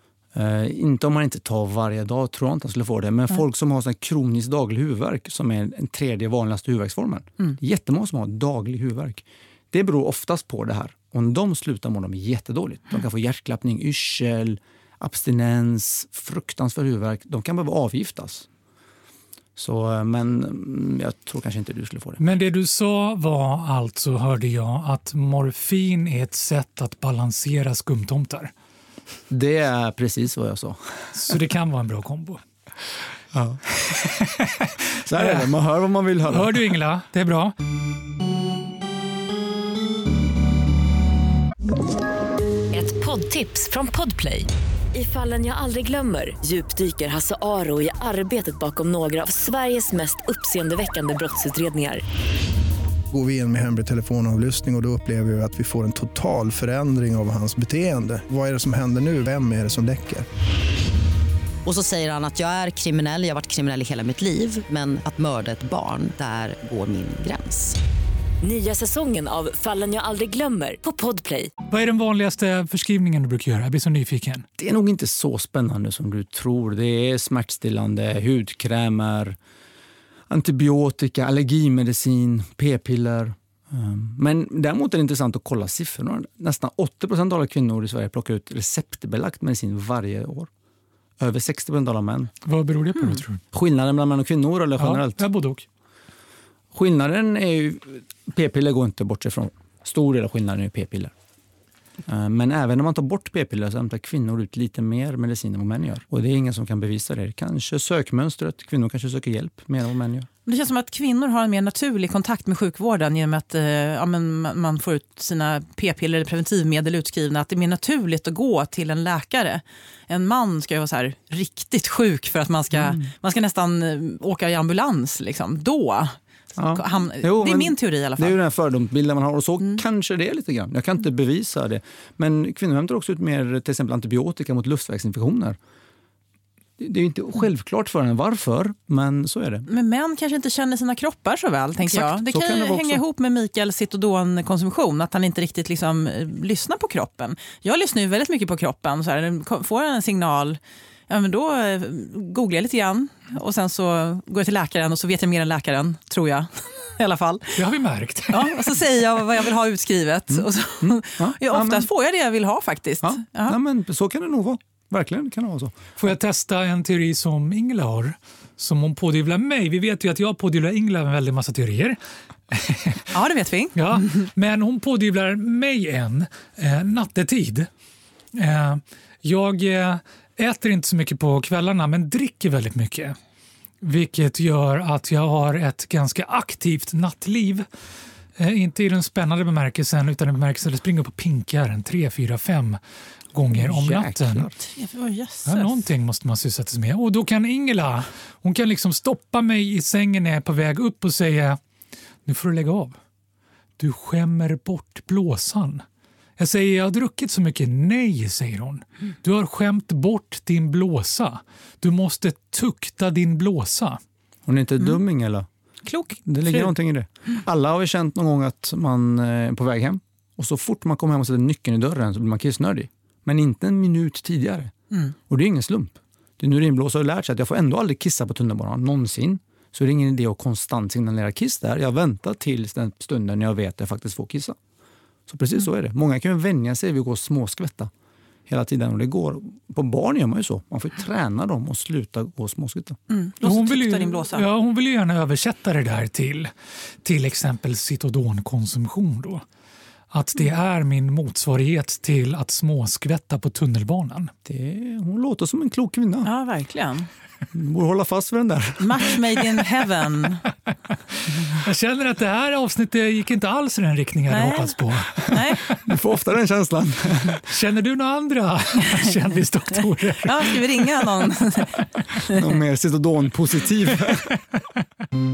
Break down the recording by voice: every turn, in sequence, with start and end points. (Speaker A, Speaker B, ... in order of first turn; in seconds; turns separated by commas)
Speaker A: 0.3-18.5, Speaker A: 19.6-22.2, Speaker B: 22.2-28.5, Speaker A: 29.3-30.8, Speaker B: 31.1-32.4, Speaker A: 33.3-34.1, Speaker B: 34.4-35.5, Speaker A: 35.0-36.7, Speaker B: 36.3-37.5, Speaker C: 42.7-52.0, Speaker D: 53.1-60.2, Speaker E: 61.6-67.8, Speaker C: 68.4-71.5, Speaker B: 71.7-74.4, Speaker A: 74.6-79.4, Speaker A: 80.3-90.5, Speaker A: 91.2-92.3, Speaker B: 92.4-93.4, Speaker A: 93.5-95.2, Speaker B: 94.8-95.7, Speaker A: 96.7-101.1, Speaker A: 102.1-110.3, Speaker F: 110.5-126.2, Speaker A: 122.7-123.0, Speaker A: 126.5-135.6, Speaker F: 126.7-128.3, Speaker A: 136.8-139.7, Speaker F: 139.7-157.6, Speaker A: 141.8-143.0, Speaker B: 157.6-158.5, Speaker F: 158.3-163.6, Speaker A: 160.3-161.9, Speaker A: 163.0-165.7, Speaker B: 166.0-172.0, Speaker B: 172.5-173.1, Speaker F: 173.1-174.0, Speaker B: 173.7-177.7, Speaker B: 178.3-183.1, Speaker B: 183.8-187.7, Speaker B: 188.4-192.8, Speaker B: 193.3-194.4, Speaker A: 193.5-194.6, Speaker F: 194.7-195.8, Speaker B: 195.4-201.6, Speaker B: 202.2-203.0, Speaker B: 203.8-205.8, Speaker B: 206.4-214.0, Speaker A: 214.4-215.4, Speaker F: 215.8-216.7, Speaker A: 216.2-224.7, Speaker A: 225.3-234.6, Speaker A: 235.3-237.9, Speaker A: 238.5-243.0, Speaker F: 243.1-244.4, Speaker B: 243.4-246.5, Speaker B: 247.0-249.4, Speaker B: 250.1-254.3, Speaker A: 254.4-256.3, Speaker F: 256.2-257.1, Speaker A: 257.5-259.0, Speaker F: 258.8-260.4, Speaker B: 261.5-265.7, Speaker F: 264.3-265.6, Speaker A: 265.8-267.4, Speaker B: 267.4-270.6, Speaker F: 270.2-272.3, Speaker A: 272.3-274.3